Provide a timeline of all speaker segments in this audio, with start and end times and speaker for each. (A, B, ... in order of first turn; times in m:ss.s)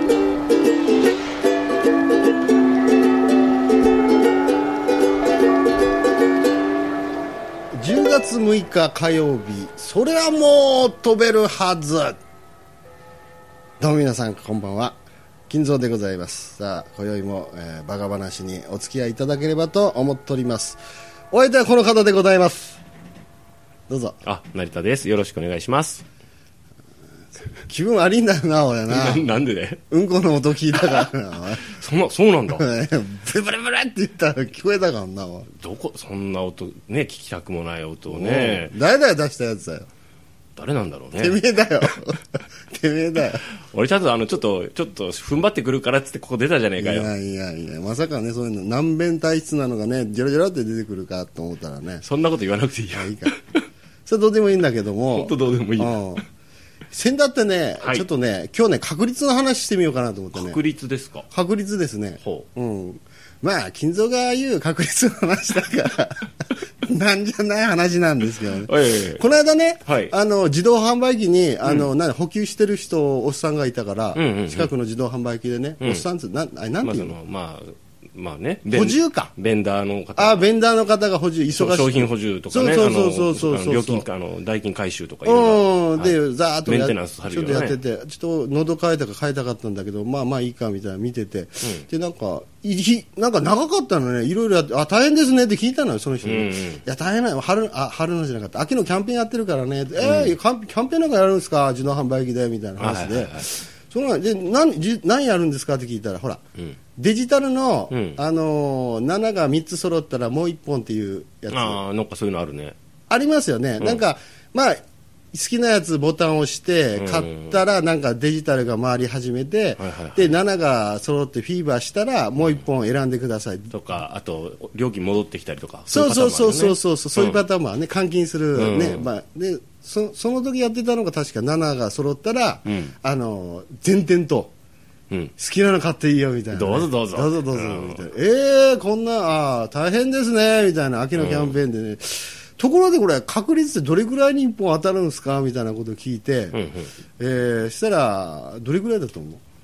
0:07.7-0:12.2 A
0:13.8-0:15.0 A
0:15.5-0:20.8 A
0:21.3-0:22.8 A
0:23.9-0:24.2 A
0:24.2-0:26.0 B
0:27.7-0:29.3 A
0:28.9-0:29.8 B
0:29.9-0:31.8 A
0:31.6-0:32.6 B
0:32.5-0:35.5 A
0:35.5-0:38.7 B
0:38.1-0:39.9 A
0:40.6-0:41.4 B
0:41.1-0:43.4 A
0:43.5-0:47.1 B
0:46.8-0:52.0 A
0:52.0-0:53.6 B
0:52.9-0:53.3 A
0:54.0-0:56.2 A
0:55.1-0:56.2 B
0:56.9-1:00.6 A
0:57.8-0:58.0 B
1:00.3-1:01.3 B
1:01.3-1:06.3 A
1:02.2-1:02.5 B
1:06.8-1:17.2 A
1:08.6-1:09.2 B
1:09.8-1:10.1 B
1:14.1-1:14.7 B
1:15.8-1:16.0 B
1:16.8-1:20.4 B
1:18.7-1:19.3 A
1:20.2-1:24.1 A
1:21.5-1:27.8 B
1:25.2-1:46.4 A
1:31.6-1:31.9 B
1:36.2-1:36.8 B
1:40.0-1:40.3 B
1:42.8-1:43.5 B
1:47.0-1:51.8 A
1:47.9-1:48.2 B
1:51.5-1:52.8 B
1:53.1-1:54.8 A
1:55.3-2:03.7 A
1:57.0-1:57.6 B
1:59.8-2:00.4 B
2:03.7-2:07.4 B
2:05.9-2:14.5 A
2:08.5-2:09.1 B
2:12.6-2:12.9 B
2:15.4-2:26.6 A
2:16.5-2:18.0 B
2:21.1-2:21.6 B
2:26.5-2:26.9 B
2:27.2-2:29.4 A